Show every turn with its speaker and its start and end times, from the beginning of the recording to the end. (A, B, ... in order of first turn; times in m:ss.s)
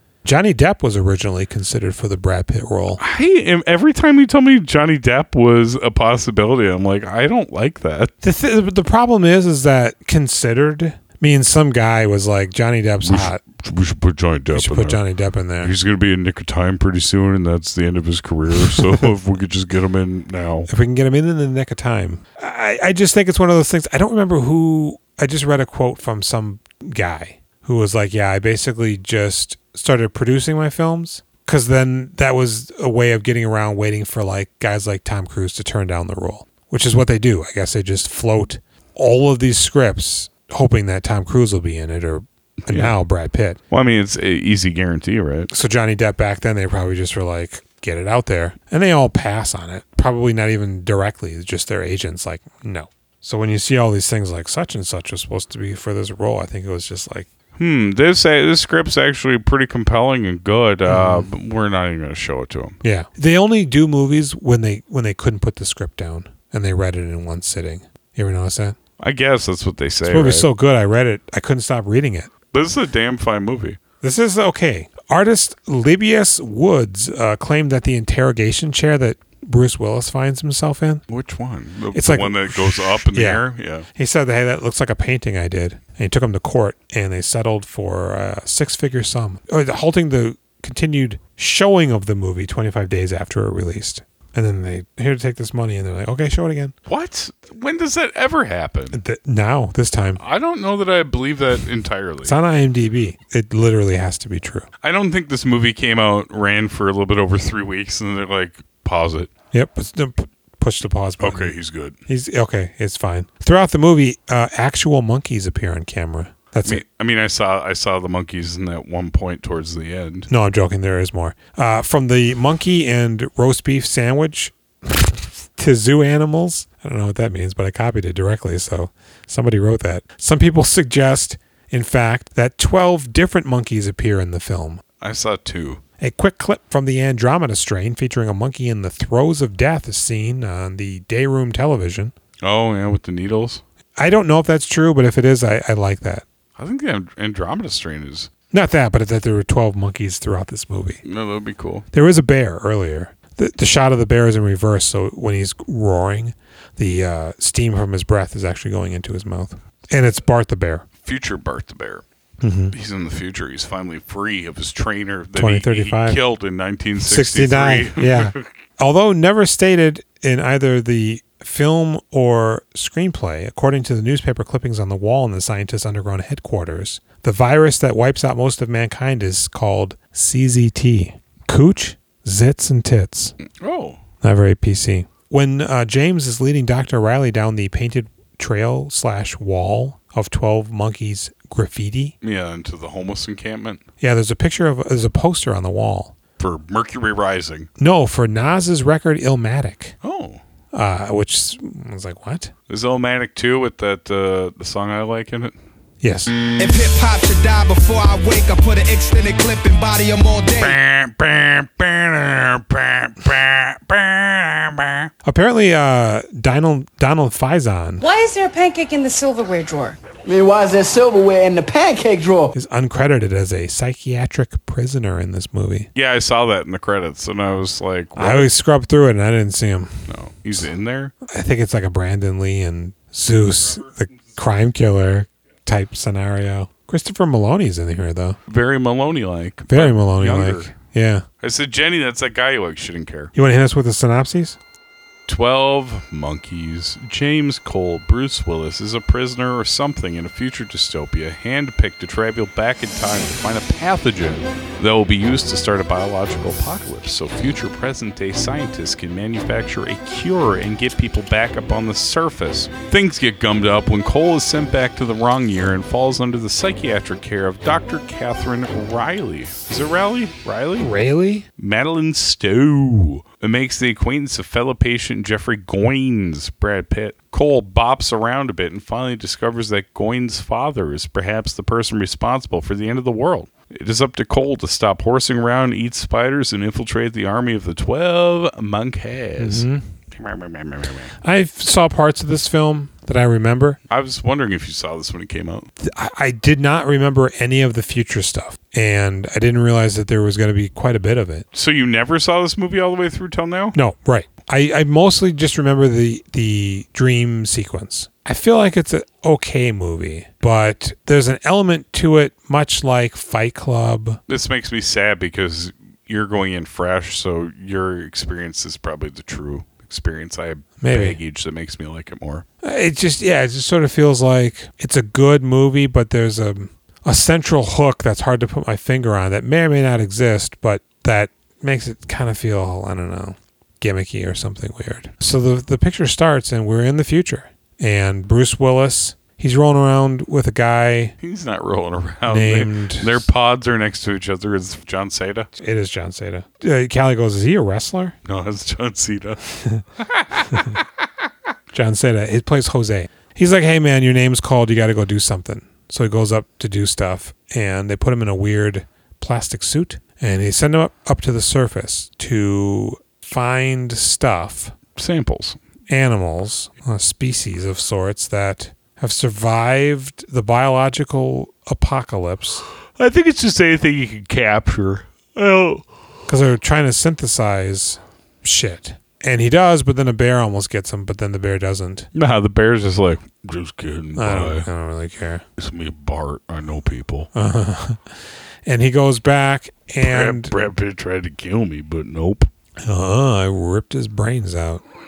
0:00.2-0:03.0 A
0:03.0-0:08.1 B
0:08.2-0:13.4 A
0:13.0-0:15.0 B
0:14.5-0:15.7 A
0:15.6-0:20.7 B
0:20.7-0:43.6 A
0:42.7-0:43.0 B
0:43.7-0:45.5 B
0:45.5-0:57.3 A
0:57.6-1:02.8 B
1:00.9-1:01.3 A
1:02.8-1:08.8 A
1:09.0-1:10.5 B
1:10.0-1:12.3 A
1:12.5-1:13.8 B
1:14.0-1:21.0 A
1:21.1-1:23.9 B
1:21.9-1:23.4 A
1:24.0-1:36.7 A
1:36.9-1:39.0 B
1:38.9-1:40.2 A
1:40.2-1:42.4 B
1:42.2-1:44.7 A
1:44.8-1:49.3 B
1:49.5-1:51.6 A
1:51.2-1:52.0 B
1:52.1-1:56.8 A
1:56.6-2:00.3 B
2:00.3-2:14.8 A
2:15.0-2:15.8 B
2:16.0-2:22.1 A
2:22.4-2:23.6 B
2:24.0-2:26.2 A
2:26.6-2:28.3 B
2:28.5-2:31.0 A
2:31.0-2:31.8 B
2:31.9-2:40.8 A
2:41.0-2:42.0 B
2:42.4-2:42.7 A
2:42.7-2:48.4 B
2:45.4-2:46.2 A
2:47.0-3:03.4 A
3:03.5-3:04.0 B
3:04.2-3:12.2 A
3:12.2-3:13.8 B
3:14.0-3:16.1 A
3:16.4-3:17.7 B
3:17.8-3:19.9 A
3:20.0-3:20.4 B
3:20.7-3:22.5 A
3:22.7-3:25.6 B
3:26.0-3:26.3 A
3:26.6-3:30.8 C
3:30.6-3:35.1 B
3:35.2-3:38.0 A
3:38.0-3:40.0 D
3:40.2-3:42.5 E
3:42.5-3:45.9 A
3:46.0-3:48.5 B
3:48.2-3:50.0 A
3:50.1-3:51.1 B
3:51.3-3:58.4 A
3:58.5-4:00.7 B
3:59.7-4:01.2 A
4:01.4-4:03.3 B
4:03.4-4:04.6 A
4:05.3-4:31.0 B
4:30.8-4:31.5 A
4:31.6-4:51.1 B
4:49.4-4:49.8 A
4:51.2-4:53.8 A
4:53.9-4:55.7 B
4:55.8-5:01.5 A
5:01.5-5:03.8 B
5:03.7-5:14.2 A
5:14.3-5:22.5 B
5:20.8-5:21.2 A
5:22.6-5:41.1 A
5:41.2-5:45.5 B
5:42.3-5:43.2 A
5:45.6-5:48.2 A
5:48.2-5:49.4 B
5:50.0-5:51.1 B
5:51.7-6:04.7 A
6:05.0-6:05.6 B
6:05.9-6:12.6 A
6:13.0-6:15.8 B
6:16.3-6:22.1 A
6:22.1-6:24.7 B
6:24.2-6:25.4 A
6:25.6-6:27.3 B
6:27.3-6:28.0 A
6:28.6-6:30.6 A
6:30.0-6:32.5 B
6:32.8-6:34.8 A